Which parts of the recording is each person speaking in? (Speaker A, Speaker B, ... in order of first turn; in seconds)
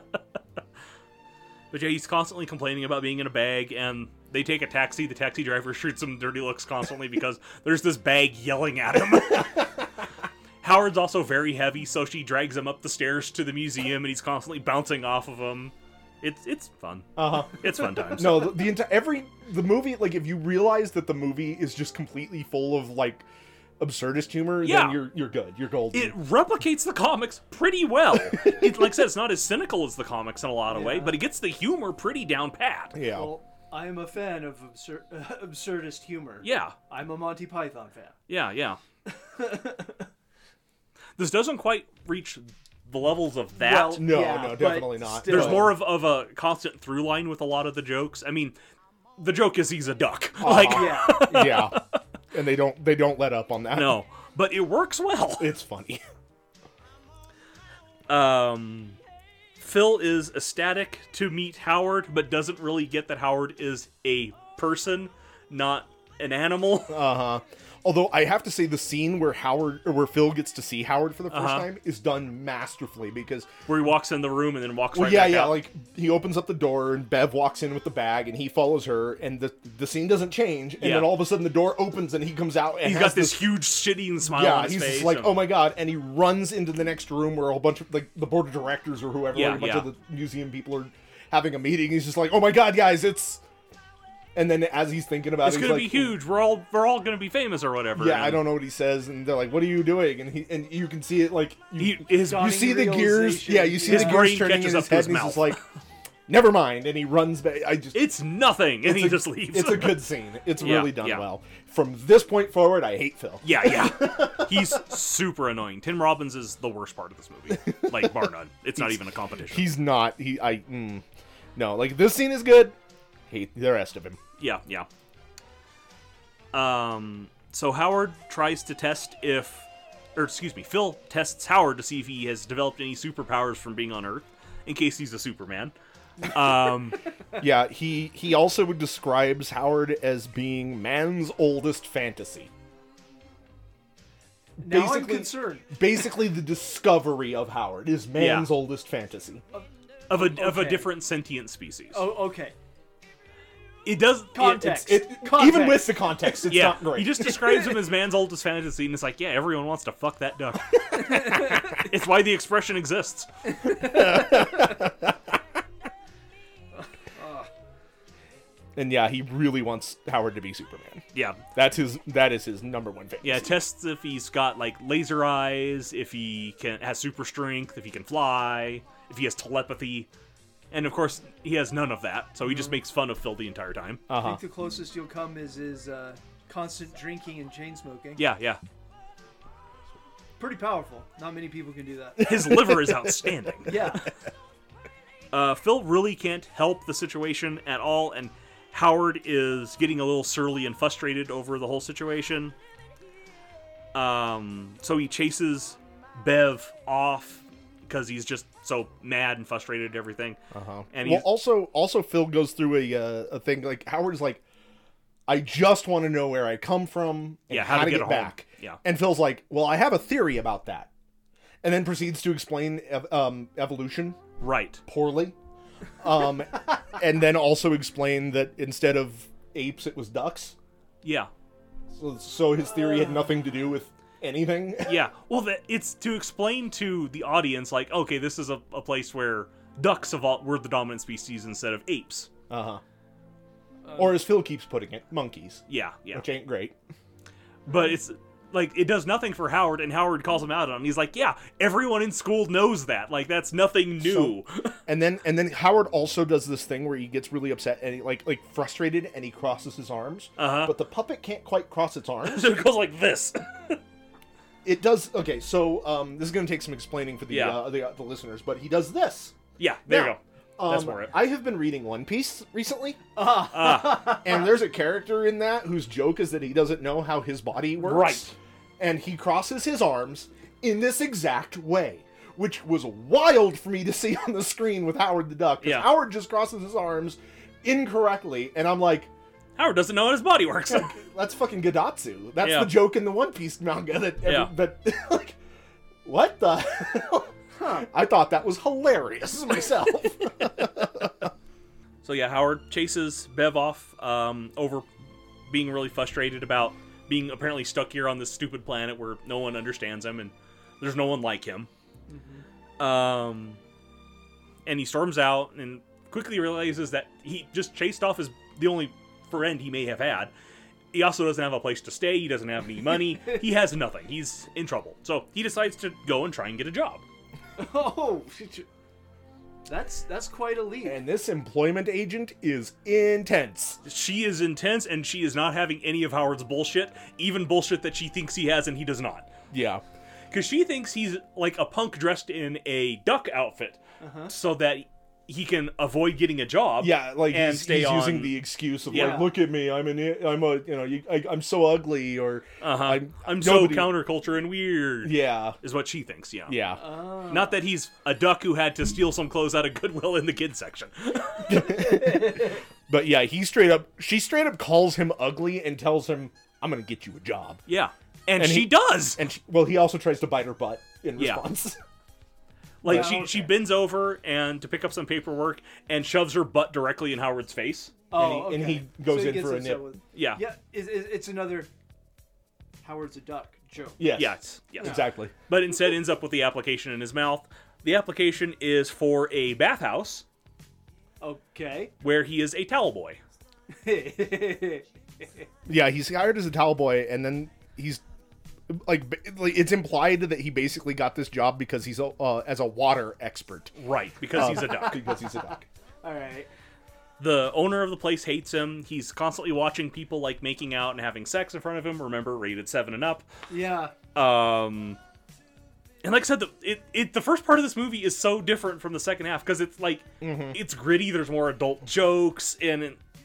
Speaker A: 1.7-9.7, 10.6-18.5, 24.6-25.0, 25.9-33.0, 36.4-36.8, 38.3-38.8, 41.2-44.1, 45.3-48.5, 49.2-51.8, 53.7-55.5, 58.1-59.0, 59.6-67.1, 71.3-71.7, 73.7-75.6, 80.8-81.2, 82.8-85.4, 89.3-89.9, 95.4-98.4, 101.8-102.6, 103.8-105.6, 107.9-110.0, 110.6-111.2, 113.4-119.7, 124.4-124.9, 126.5-135.7, 136.3-137.0, 148.2-148.5, 150.1-152.1, 153.8-154.8, 156.5-163.3, 171.1-171.4, 173.2-180.1, 180.7-184.0, 188.2-188.6, 192.2-194.0, 195.3-202.5, 203.9-210.4, 210.9-211.3, 217.5-218.8, 224.4-224.8, 231.0-231.3, 234.8-242.3, 245.7-246.2, 247.7-254.7, 260.4-260.7, 262.2-263.8, 267.3-267.6, 269.6-271.1, 273.5-274.2, 277.8-278.3, 285.6-285.9, 289.6-290.9, 292.4-292.8, 294.2-294.5, 302.0-304.9, 305.5-311.7, 312.8-313.6, 314.6-320.3, 320.9-327.0, 333.8-339.3, 340.3-349.3, 352.6-356.6, 357.3-361.7, 367.7-369.2, 371.2-371.4, 372.8-377.9, 380.1-380.4, 384.1-390.2, 392.0-393.2, 403.8-405.0, 407.2-413.2, 414.1-415.0, 416.0-423.0
Speaker B: 17.1-23.2, 23.8-26.2, 32.9-33.3, 43.9-45.7, 50.4-51.8, 52.3-54.0, 55.4-56.0, 66.9-73.5, 74.9-83.5, 84.2-93.4, 94.3-96.2, 98.0-105.6, 106.3-108.2, 108.8-114.8, 117.5-119.0, 119.5-121.0, 121.5-122.8, 123.3-124.2, 137.4-142.5, 144.6-149.4, 154.6-157.4, 163.7-165.1, 168.8-173.6, 184.1-184.4, 192.5-193.1, 210.5-214.4, 215.3-220.9, 221.6-224.2, 224.8-225.3, 226.0-230.5, 231.9-234.9, 242.5-242.8, 243.9-246.8, 254.0-262.5, 264.6-269.3, 269.9-273.0, 273.9-289.1, 290.7-295.4, 296.0-301.1, 330.8-333.8, 339.5-339.8, 346.8-354.0, 355.0-355.6, 356.5-356.8, 361.5-367.6, 368.4-371.8, 372.8-373.5, 378.1-379.8, 384.0-385.3, 395.7-398.0, 398.7-403.7, 404.4-405.6, 420.2-420.6
Speaker C: 30.7-31.2, 33.1-38.1, 39.1-40.1, 43.6-45.7, 50.6-51.4, 102.2-104.3, 144.6-145.8, 149.5-150.9, 151.9-152.5, 154.3-156.2, 160.9-161.7, 163.6-164.6, 167.2-167.5, 184.2-188.2, 190.4-192.3, 193.7-194.1, 273.1-274.5, 312.1-312.4, 327.6-328.6, 329.6-331.0, 344.0-344.3, 348.9-349.3, 356.8-357.6, 361.9-362.5, 372.9-373.5, 378.1-381.7, 382.8-384.0, 384.8-385.1, 391.2-391.9, 393.8-395.4, 406.0-406.5, 413.5-413.9